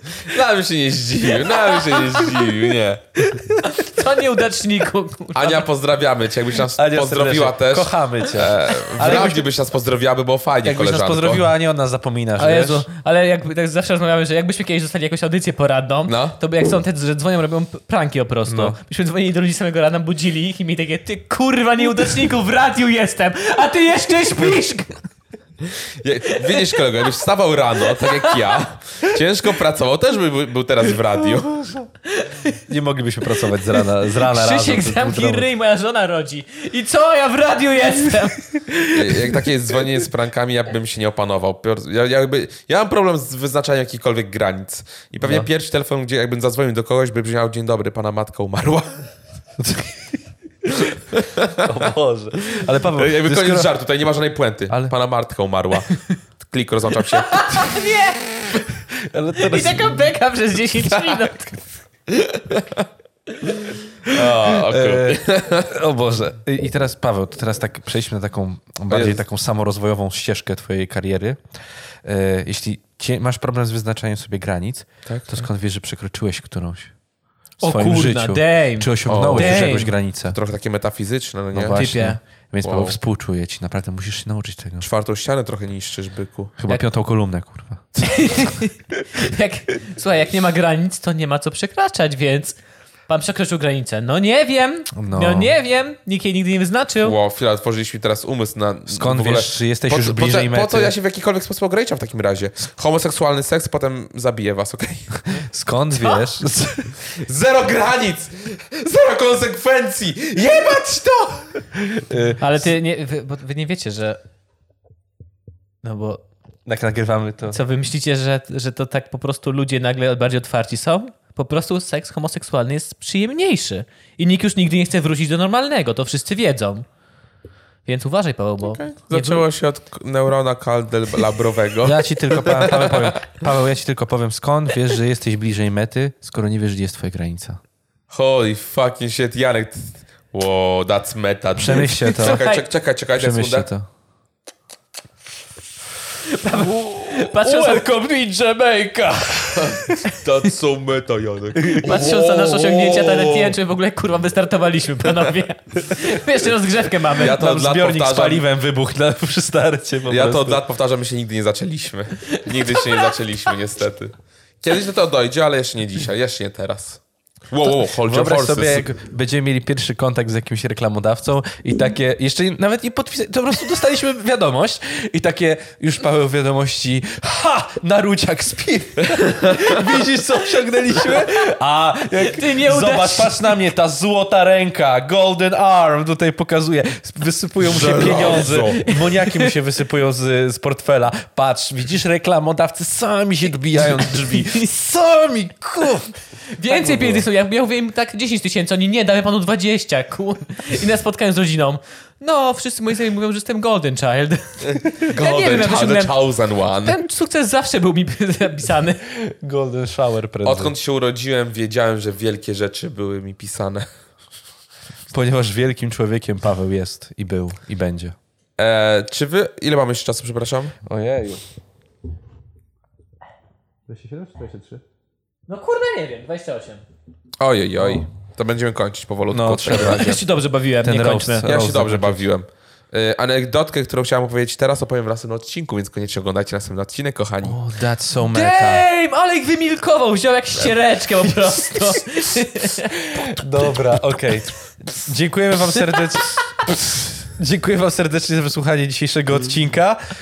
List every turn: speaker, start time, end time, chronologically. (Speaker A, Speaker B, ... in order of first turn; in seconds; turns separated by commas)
Speaker A: 0.2-3.0, Speaker B: 1.4-2.4, Speaker B: 3.2-5.7, Speaker A: 5.3-11.4, Speaker C: 6.7-9.5, Speaker C: 10.6-12.9, Speaker B: 12.4-25.1, Speaker A: 16.1-16.4, Speaker C: 18.5-18.8, Speaker A: 26.0-31.8, Speaker B: 26.4-26.8, Speaker B: 27.9-28.5, Speaker B: 32.1-32.6, Speaker C: 32.7-35.5, Speaker B: 33.3-39.5, Speaker A: 38.9-49.0, Speaker C: 45.2-45.5, Speaker C: 49.6-50.2, Speaker A: 51.1-51.6, Speaker C: 51.6-53.7, Speaker A: 53.0-57.8, Speaker B: 57.1-58.6, Speaker C: 59.0-60.1, Speaker B: 59.4-61.6, Speaker A: 62.1-62.9, Speaker A: 63.5-65.7, Speaker C: 64.6-71.4, Speaker A: 68.9-69.2, Speaker C: 72.0-76.9, Speaker A: 75.1-75.5, Speaker C: 77.6-80.4, Speaker B: 77.6-79.9, Speaker A: 79.1-81.8, Speaker C: 81.5-84.9, Speaker B: 81.7-82.2, Speaker A: 82.6-83.0, Speaker A: 84.8-86.5, Speaker C: 86.6-87.9, Speaker B: 88.0-97.2, Speaker C: 95.0-95.5, Speaker A: 97.0-105.2, Speaker C: 98.9-100.9, Speaker C: 105.3-107.0, Speaker A: 107.2-111.5, Speaker C: 111.8-112.4, Speaker B: 112.4-114.2, Speaker B: 115.8-116.2, Speaker C: 116.7-117.6, Speaker B: 117.5-126.8, Speaker B: 127.9-129.4, Speaker A: 128.7-133.1, Speaker C: 131.8-137.6, Speaker A: 138.1-143.7, Speaker C: 141.6-142.4, Speaker B: 142.2-142.7, Speaker C: 143.2-143.9, Speaker B: 146.3-147.9, Speaker C: 146.5-150.0, Speaker A: 149.6-153.5, Speaker C: 151.6-152.3, Speaker B: 151.7-157.4, Speaker A: 157.1-158.4, Speaker C: 157.2-160.6, Speaker A: 160.1-168.9, Speaker B: 162.5-163.2, Speaker C: 167.7-196.1, Speaker A: 179.3-179.7, Speaker B: 182.2-183.5, Speaker A: 187.6-188.8, Speaker B: 188.8-189.6, Speaker B: 196.6-206.2, Speaker C: 196.7-197.3, Speaker A: 204.6-207.0, Speaker B: 206.8-209.1, Speaker C: 209.2-210.7, Speaker A: 210.4-213.9, Speaker C: 215.1-218.2, Speaker A: 218.6-220.7, Speaker C: 220.8-221.4, Speaker C: 223.9-224.8, Speaker B: 225.5-226.8, Speaker A: 227.4-230.2, Speaker C: 229.3-230.2, Speaker B: 229.7-231.5, Speaker C: 230.8-232.2, Speaker A: 231.4-237.6, Speaker C: 237.4-238.8, Speaker B: 238.2-243.4, Speaker C: 243.1-250.0